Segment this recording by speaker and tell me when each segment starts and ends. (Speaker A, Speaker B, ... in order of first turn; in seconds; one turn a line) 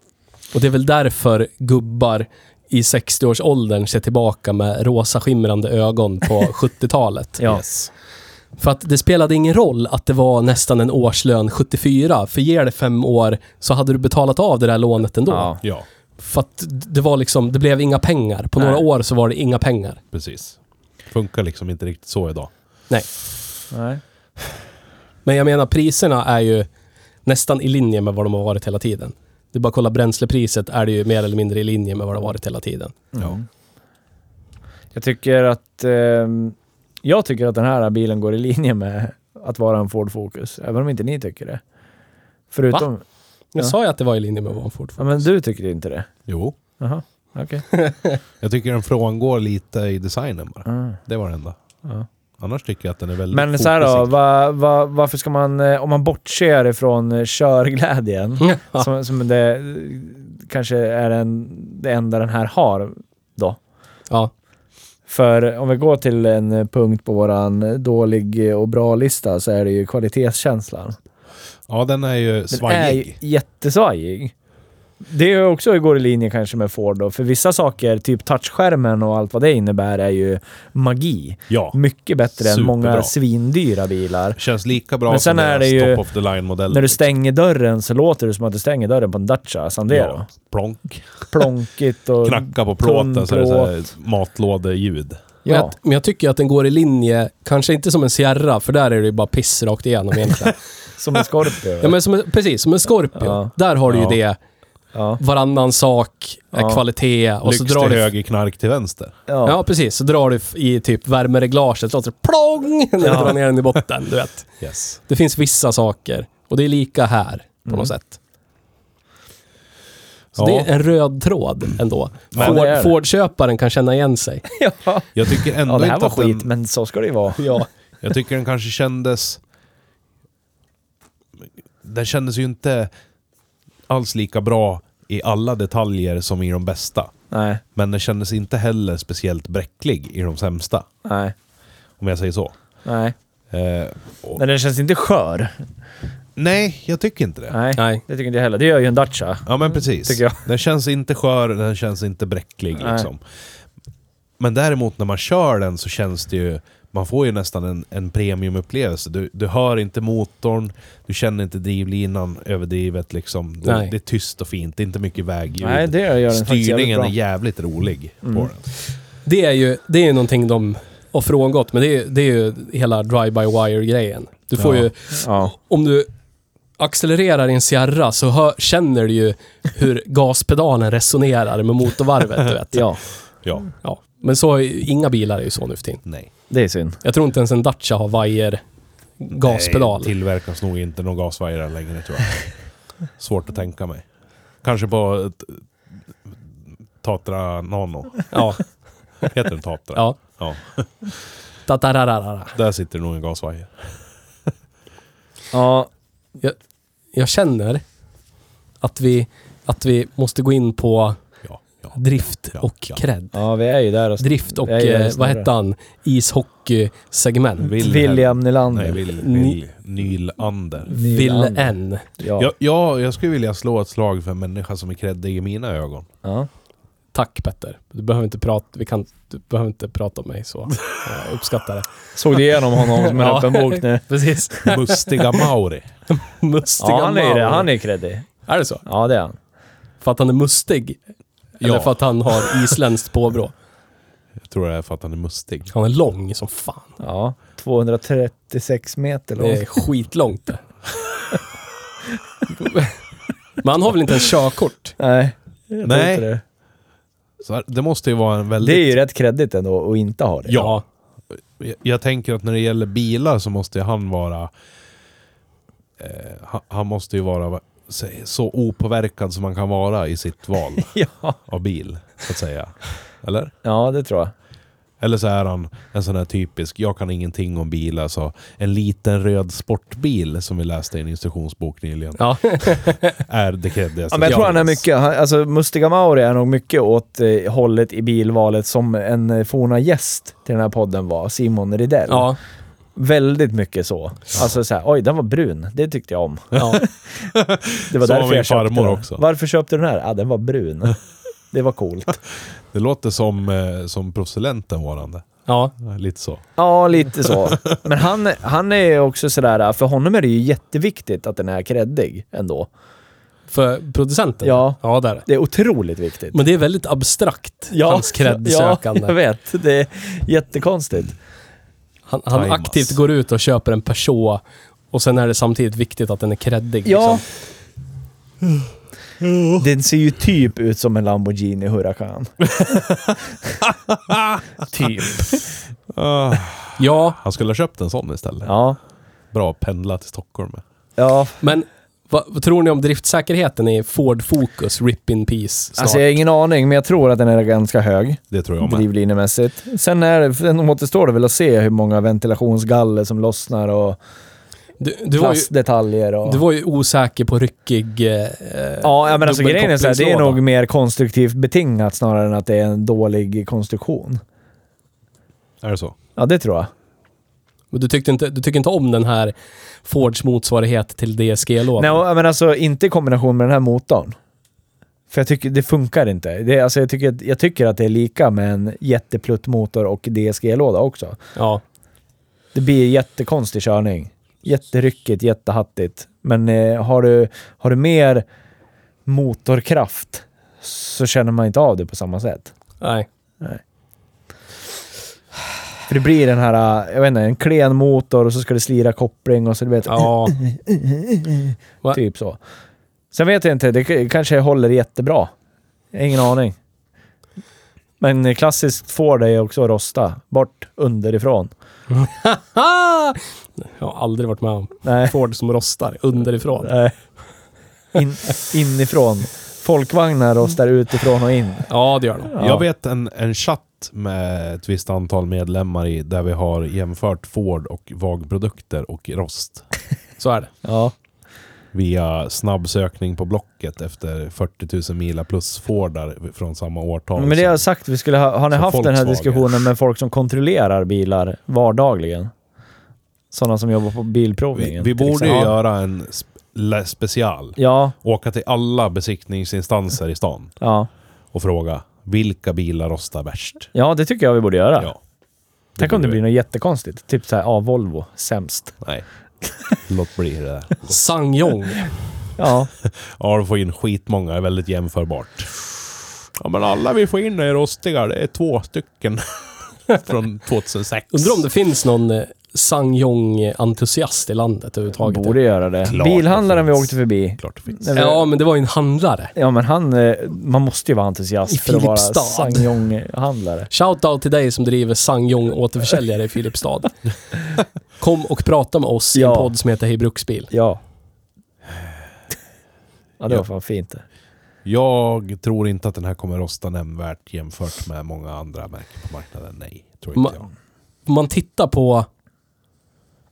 Speaker A: 0.5-7.4
Speaker B: 7.5-7.9
Speaker A: 8.6-15.6
Speaker C: 15.3-15.6
Speaker A: 16.2-20.0
Speaker C: 18.6-18.8
Speaker B: 20.1-22.5
Speaker C: 23.7-24.0
Speaker A: 25.2-26.7
Speaker A: 27.2-33.0
Speaker C: 33.1-33.5
Speaker C: 34.9-41.6
Speaker C: 42.5-43.0
Speaker A: 43.5-45.2
Speaker C: 45.0-46.1
Speaker B: 46.3-46.6
Speaker C: 46.8-47.6
Speaker B: 48.4-51.6
Speaker C: 50.7-51.0
Speaker B: 52.4-54.1
Speaker C: 53.3-63.6
Speaker A: 58.4-58.9
Speaker C: 65.1-71.0
Speaker B: 71.7-73.2
Speaker C: 72.5-74.3
Speaker C: 75.0-84.4
Speaker B: 81.5-81.8
Speaker B: 82.3-83.1
Speaker B: 84.4-87.1
Speaker C: 85.1-86.0
Speaker C: 86.7-90.3
Speaker B: 89.9-91.5
Speaker C: 91.3-93.7
Speaker B: 92.2-95.2
Speaker C: 95.5-95.8
Speaker A: 95.5-100.6
Speaker C: 101.0-102.0
Speaker A: 101.8-104.4
Speaker C: 103.2-103.5
Speaker B: 103.9-104.2
Speaker C: 104.9-105.2
Speaker A: 105.2-108.1
Speaker C: 106.5-106.8
Speaker B: 107.4-109.2
Speaker C: 109.3-109.6
Speaker A: 109.5-114.5
Speaker C: 113.0-113.3
Speaker B: 114.6-115.0
Speaker A: 115.1-118.2
Speaker C: 117.7-117.9
Speaker B: 120.3-120.7
Speaker A: 120.3-124.5
Speaker B: 122.3-122.6
Speaker C: 122.4-122.9
Speaker C: 124.5-127.4
Speaker B: 125.2-126.5
Speaker A: 127.4-127.7
Speaker B: 128.0-129.4
Speaker B: 131.8-132.9
Speaker B: 133.9-137.1
Speaker C: 137.3-137.6
Speaker B: 137.8-140.9
Speaker C: 141.1-141.3
Speaker B: 142.0-142.5
Speaker C: 142.8-143.2
Speaker B: 143.5-144.4
Speaker C: 144.4-145.6
Speaker B: 146.4-147.6
Speaker C: 147.5-150.4
Speaker A: 147.8-148.0
Speaker B: 149.5-153.2
Speaker C: 152.8-153.1
Speaker B: 154.4-168.7
Speaker A: 163.7-163.9
Speaker C: 165.6-167.1
Speaker C: 168.2-168.5
Speaker A: 169.2-176.1
Speaker B: 174.6-174.9
Speaker C: 175.2-175.5
Speaker A: 176.8-183.0
Speaker C: 182.7-183.0
Speaker B: 183.4-183.7
Speaker A: 183.8-186.0
Speaker C: 186.5-187.0
Speaker A: 187.0-188.6
Speaker A: 189.2-190.1
Speaker B: 189.3-192.5
Speaker B: 193.2-194.1
Speaker B: 194.6-195.7
Speaker B: 197.0-198.4
Speaker A: 198.3-198.7
Speaker B: 199.3-200.9
Speaker A: 201.7-202.6
Speaker B: 202.6-203.9
Speaker C: 205.5-205.9
Speaker A: 207.1-207.8
Speaker A: 208.8-211.2
Speaker B: 211.4-212.0
Speaker A: 211.9-213.4
Speaker B: 212.6-213.0
Speaker C: 213.3-215.5
Speaker A: 214.2-217.8
Speaker B: 217.6-220.9
Speaker C: 217.7-219.1
Speaker A: 219.1-219.6
Speaker C: 220.9-222.5
Speaker A: 220.9-222.1
Speaker B: 222.4-226.1
Speaker C: 226.2-226.5
Speaker A: 227.1-231.9
Speaker C: 232.2-234.7
Speaker A: 232.8-235.4
Speaker B: 234.7-235.9
Speaker A: 236.1-237.7
Speaker C: 236.8-238.3
Speaker A: 238.5-238.8
Speaker C: 238.9-239.4
Speaker A: 240.0-241.0
Speaker A: 241.6-243.5
Speaker B: 241.6-241.9
Speaker B: 244.4-245.7
Speaker A: 245.7-246.9
Speaker C: 247.0-249.7
Speaker A: 249.4-250.6
Speaker A: 252.6-252.9
Speaker A: 253.6-255.0
Speaker C: 255.0-256.4
Speaker B: 255.8-256.3
Speaker B: 257.4-258.9
Speaker C: 258.6-260.7
Speaker B: 260.5-260.8
Speaker A: 260.6-260.8
Speaker B: 261.6-264.5
Speaker B: 266.0-270.9
Speaker C: 270.8-271.4
Speaker B: 271.5-273.5
Speaker C: 273.6-274.3
Speaker B: 275.0-284.8
Speaker A: 282.2-283.2
Speaker C: 284.1-292.3
Speaker A: 292.1-292.4
Speaker C: 293.0-296.9
Speaker A: 296.6-296.8
Speaker B: 297.3-299.2
Speaker C: 297.9-301.0
Speaker C: 301.5-302.2
Speaker B: 302.7-306.4
Speaker A: 305.5-305.7
Speaker C: 306.6-312.7
Speaker B: 307.3-307.7
Speaker A: 313.5-315.3
Speaker C: 314.4-316.4
Speaker A: 316.3-319.1
Speaker C: 317.7-321.2
Speaker A: 322.1-324.4
Speaker B: 322.3-323.0
Speaker A: 324.9-327.2
Speaker C: 326.9-327.2
Speaker C: 329.6-332.8
Speaker B: 333.9-334.4
Speaker C: 334.7-335.4
Speaker B: 335.9-338.5
Speaker A: 336.8-337.2
Speaker C: 338.4-338.8
Speaker B: 339.3-340.6
Speaker C: 341.0-341.4
Speaker A: 341.4-346.1
Speaker C: 345.8-354.0
Speaker B: 348.3-348.9
Speaker A: 354.8-355.5
Speaker C: 355.1-356.4
Speaker A: 356.2-360.4
Speaker C: 358.8-364.2
Speaker B: 365.6-366.0
Speaker C: 366.2-366.7
Speaker A: 367.7-369.3
Speaker A: 369.9-372.0
Speaker C: 371.8-374.2
Speaker C: 375.1-381.2
Speaker A: 381.4-381.6
Speaker C: 382.5-388.2
Speaker C: 389.1-392.5
Speaker A: 392.8-393.1
Speaker C: 395.9-402.4
Speaker A: 399.9-400.4
Speaker C: 403.1-405.3
Speaker C: 405.9-406.6
Speaker C: 408.0-411.5
Speaker A: 411.9-416.8
Speaker C: 414.8-415.1
Speaker C: 416.6-416.9
Speaker C: 417.9-421.7
Speaker A: 421.7-422.3
Speaker C: 422.3-422.6
Speaker B: 422.4-429.7
Speaker A: 430.2-430.5
Speaker C: 430.6-430.9
Speaker B: 431.7-437.6
Speaker C: 437.2-442.3
Speaker B: 438.5-439.6
Speaker C: 443.3-445.6
Speaker B: 444.5-450.6
Speaker C: 447.6-447.9
Speaker C: 450.6-450.9
Speaker B: 451.3-453.7
Speaker C: 453.7-454.9
Speaker B: 455.8-456.2
Speaker C: 455.8-458.8
Speaker B: 459.8-461.0
Speaker A: 460.9-461.9
Speaker C: 462.4-462.7
Speaker B: 462.8-465.7
Speaker B: 466.4-471.4
Speaker A: 471.1-475.4
Speaker C: 475.0-478.3
Speaker B: 475.8-477.9
Speaker A: 477.9-479.3
Speaker C: 479.4-483.7
Speaker A: 481.5-482.7
Speaker A: 483.7-487.0
Speaker A: 488.0-490.5
Speaker C: 489.1-489.5
Speaker C: 490.5-490.8
Speaker C: 493.2-494.0
Speaker B: 494.6-500.5
Speaker A: 501.1-502.1